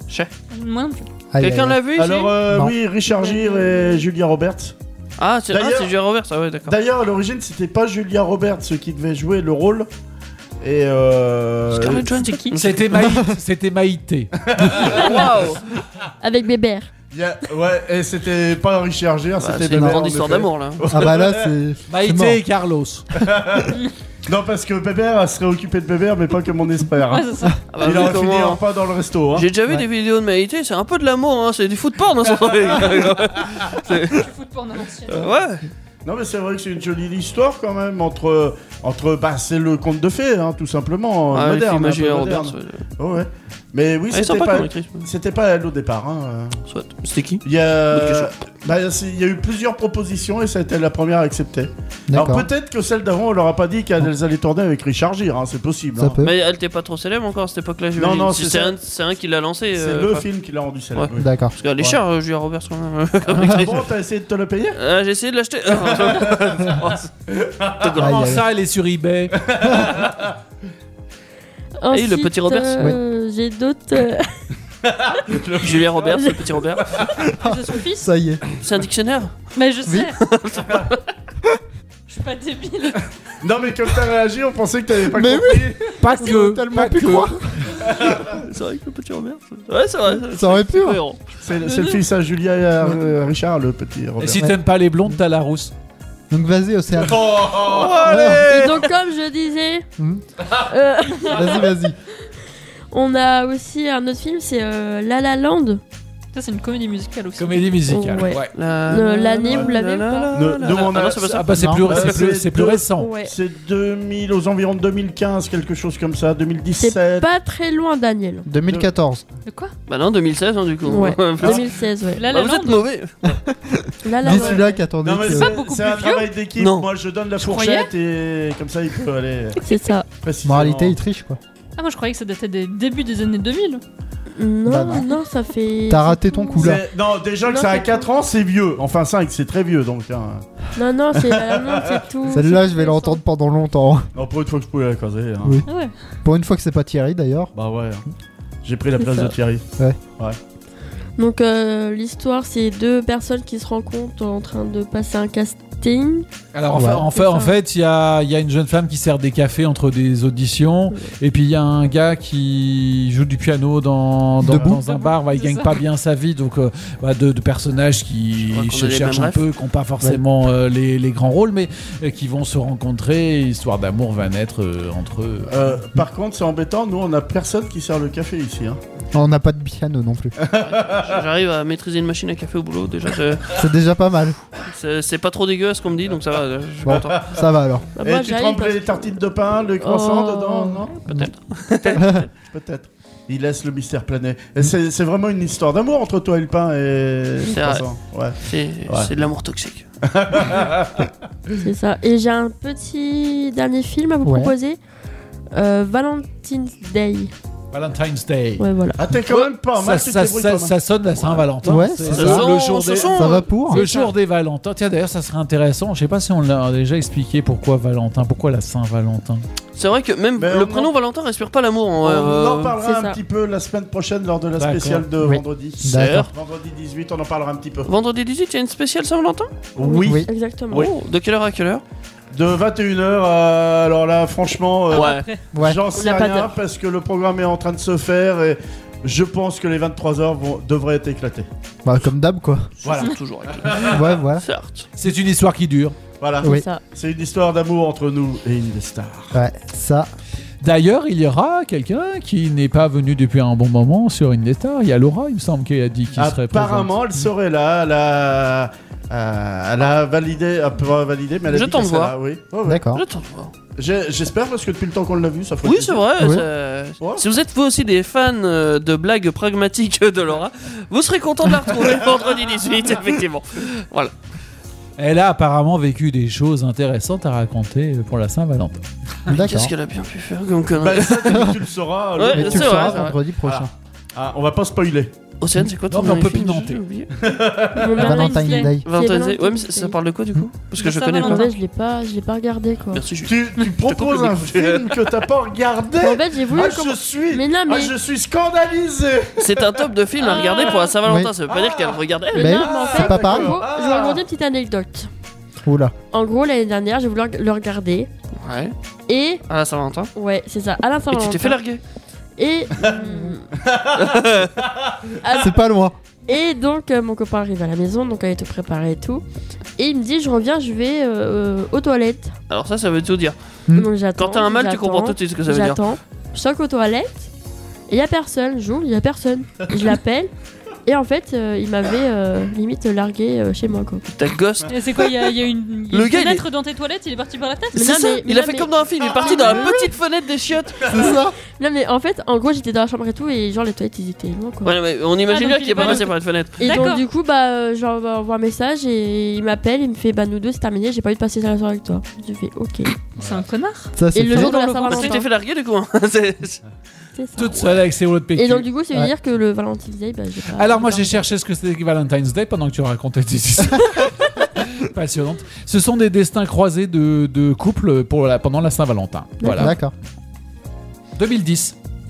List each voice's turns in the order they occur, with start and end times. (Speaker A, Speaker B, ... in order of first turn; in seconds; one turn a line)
Speaker A: 0.5-1.1
Speaker B: 1.3-1.8
Speaker C: 1.4-2.4
Speaker D: 1.9-4.8
Speaker B: 2.5-2.7
Speaker E: 3.2-4.0
Speaker C: 5.2-6.7
Speaker D: 5.5-5.9
Speaker D: 6.7-9.9
Speaker D: 10.6-12.1
Speaker C: 11.7-12.8
Speaker A: 12.2-12.6
Speaker F: 12.5-15.3
Speaker B: 12.9-13.4
Speaker D: 14.4-15.1
Speaker C: 14.8-15.6
Speaker E: 16.2-16.9
Speaker D: 17.1-21.5
Speaker C: 19.4-20.8
Speaker B: 19.7-20.0
Speaker B: 20.9-22.4
Speaker F: 21.9-23.1
Speaker D: 23.1-29.5
Speaker A: 27.1-27.7
Speaker C: 27.7-28.6
Speaker C: 29.3-34.2
Speaker A: 34.1-35.3
Speaker C: 35.1-35.6
Speaker D: 36.0-46.6
Speaker C: 41.3-42.8
Speaker C: 44.1-45.0
Speaker C: 46.7-48.3
Speaker D: 47.4-56.2
Speaker B: 52.1-52.5
Speaker B: 56.0-56.3
Speaker C: 56.2-60.3
Speaker D: 58.0-58.8
Speaker D: 59.7-62.0
Speaker C: 60.9-63.9
Speaker B: 61.2-61.5
Speaker D: 63.4-64.8
Speaker C: 64.8-67.1
Speaker D: 65.8-67.9
Speaker C: 67.7-68.2
Speaker B: 68.0-68.5
Speaker F: 68.0-69.4
Speaker D: 69.4-70.3
Speaker E: 71.8-74.5
Speaker C: 71.9-72.9
Speaker D: 74.8-76.2
Speaker C: 75.6-76.9
Speaker D: 76.9-77.3
Speaker A: 77.4-78.1
Speaker B: 77.4-78.4
Speaker C: 78.6-79.5
Speaker A: 79.5-80.2
Speaker B: 79.9-80.1
Speaker C: 80.2-81.0
Speaker A: 82.1-83.1
Speaker D: 83.4-86.0
Speaker B: 85.1-87.7
Speaker F: 86.0-87.4
Speaker D: 87.8-88.4
Speaker C: 88.2-91.2
Speaker B: 90.1-91.0
Speaker D: 91.4-94.4
Speaker A: 91.7-92.0
Speaker F: 94.2-95.7
Speaker B: 96.3-98.4
Speaker D: 97.0-98.7
Speaker C: 97.6-98.6
Speaker E: 98.5-99.9
Speaker E: 100.5-101.7
Speaker B: 101.2-102.0
Speaker E: 102.9-105.8
Speaker A: 106.3-107.8
Speaker F: 107.4-108.5
Speaker E: 107.9-110.3
Speaker C: 108.5-111.5
Speaker D: 110.3-117.3
Speaker F: 111.3-113.1
Speaker B: 111.5-111.9
Speaker E: 113.0-113.3
Speaker E: 116.8-118.5
Speaker B: 118.5-119.2
Speaker A: 119.5-119.7
Speaker C: 119.9-121.7
Speaker E: 120.8-122.2
Speaker D: 121.4-121.7
Speaker A: 122.1-122.9
Speaker C: 122.3-123.3
Speaker B: 123.3-125.6
Speaker E: 124.0-124.8
Speaker D: 124.2-129.6
Speaker A: 125.2-126.3
Speaker C: 126.6-126.9
Speaker A: 127.4-127.9
Speaker E: 129.6-130.1
Speaker D: 130.2-131.0
Speaker B: 130.4-131.4
Speaker A: 131.8-133.8
Speaker E: 134.4-136.8
Speaker B: 134.7-135.1
Speaker B: 135.9-136.8
Speaker D: 136.6-140.4
Speaker E: 137.4-138.1
Speaker E: 140.8-143.2
Speaker D: 141.1-142.0
Speaker B: 142.3-144.1
Speaker D: 144.2-145.6
Speaker A: 145.7-145.9
Speaker B: 146.2-147.5
Speaker D: 147.5-148.0
Speaker D: 148.6-149.7
Speaker E: 151.2-156.3
Speaker F: 156.5-175.8
Speaker B: 156.7-157.1
Speaker E: 157.1-157.6
Speaker B: 164.4-164.8
Speaker A: 164.7-165.8
Speaker C: 168.5-169.4
Speaker D: 175.5-178.8
Speaker B: 179.1-180.3
Speaker D: 180.4-181.2
Speaker C: 180.6-183.4
Speaker B: 183.5-184.4
Speaker C: 184.6-187.3
Speaker B: 186.8-187.9
Speaker D: 186.9-187.3
Speaker E: 188.0-189.2
Speaker D: 188.0-191.0
Speaker E: 189.8-190.8
Speaker C: 191.1-192.0
Speaker D: 191.9-199.1
Speaker B: 191.9-192.3
Speaker C: 197.5-197.9
Speaker C: 198.4-199.8
Speaker D: 200.1-201.1
Speaker E: 201.6-204.8
Speaker B: 204.2-204.5
Speaker E: 205.5-207.3
Speaker F: 207.7-208.7
Speaker E: 208.6-209.0
Speaker D: 209.0-211.4
Speaker F: 209.7-219.4
Speaker B: 211.7-212.5
Speaker D: 212.1-212.4
Speaker C: 212.2-213.5
Speaker B: 213.2-213.9
Speaker C: 219.8-222.8
Speaker D: 220.4-220.9
Speaker D: 222.0-227.9
Speaker E: 222.8-223.2
Speaker F: 224.6-225.1
Speaker B: 225.2-226.3
Speaker C: 225.9-226.3
Speaker C: 227.8-229.5
Speaker D: 229.8-230.9
Speaker E: 229.8-230.9
Speaker C: 230.7-231.8
Speaker D: 232.3-241.5
Speaker C: 234.9-235.2
Speaker A: 234.9-235.4
Speaker B: 235.5-235.8
Speaker E: 235.9-236.6
Speaker B: 241.8-242.7
Speaker D: 242.8-244.0
Speaker C: 242.8-244.9
Speaker B: 243.9-244.4
Speaker F: 245.0-246.0
Speaker D: 246.2-249.4
Speaker E: 246.4-246.8
Speaker B: 249.3-250.1
Speaker F: 250.6-256.9
Speaker D: 256.1-262.9
Speaker C: 261.5-262.2
Speaker B: 262.7-263.0
Speaker C: 262.9-263.5
Speaker D: 263.8-266.1
Speaker C: 265.6-274.1
Speaker B: 266.2-266.4
Speaker D: 267.0-267.3
Speaker F: 275.0-278.8
Speaker B: 279.3-279.7
Speaker C: 279.3-281.4
Speaker D: 280.8-285.1
Speaker C: 282.2-283.2
Speaker B: 282.3-283.7
Speaker C: 285.4-287.1
Speaker F: 285.9-286.8
Speaker D: 287.2-287.9
Speaker E: 287.8-289.9
Speaker B: 288.0-288.9
Speaker A: 288.0-288.7
Speaker C: 288.8-291.5
Speaker A: 290.8-291.5
Speaker E: 291.2-293.1
Speaker C: 292.9-295.1
Speaker D: 293.2-299.9
Speaker A: 293.6-293.8
Speaker E: 296.0-297.9
Speaker C: 299.4-302.7
Speaker E: 300.2-300.8
Speaker A: 300.4-300.8
Speaker B: 301.0-301.3
Speaker D: 301.5-304.2
Speaker E: 302.3-305.1
Speaker B: 302.4-303.6
Speaker B: 305.7-305.9
Speaker E: 306.1-308.1
Speaker C: 308.4-308.7
Speaker E: 309.1-309.4
Speaker C: 309.5-310.1
Speaker E: 310.1-311.6
Speaker C: 311.1-311.8
Speaker E: 312.4-313.5
Speaker D: 313.6-315.1
Speaker C: 313.9-314.5
Speaker E: 315.2-315.6
Speaker B: 315.4-316.0
Speaker E: 316.3-319.2
Speaker E: 319.8-322.4
Speaker C: 322.5-323.4
Speaker E: 323.7-327.3
Speaker C: 324.2-325.8
Speaker E: 327.9-330.3
Speaker E: 330.9-334.1
Speaker C: 334.1-334.7
Speaker A: 334.7-338.2
Speaker C: 335.9-336.5
Speaker E: 337.7-338.7
Speaker C: 337.8-341.1
Speaker D: 339.2-339.6
Speaker B: 339.4-339.9
Speaker B: 340.9-341.4
Speaker E: 341.6-344.8
Speaker C: 344.6-346.7
Speaker A: 345.3-347.1
Speaker E: 346.6-353.0
Speaker A: 353.2-355.2
Speaker B: 353.9-354.5
Speaker E: 354.1-355.2
Speaker C: 354.5-356.6
Speaker E: 357.2-361.3
Speaker F: 357.4-358.7
Speaker F: 360.6-369.8
Speaker E: 369.4-369.7
Speaker B: 369.6-369.9
Speaker F: 371.1-371.8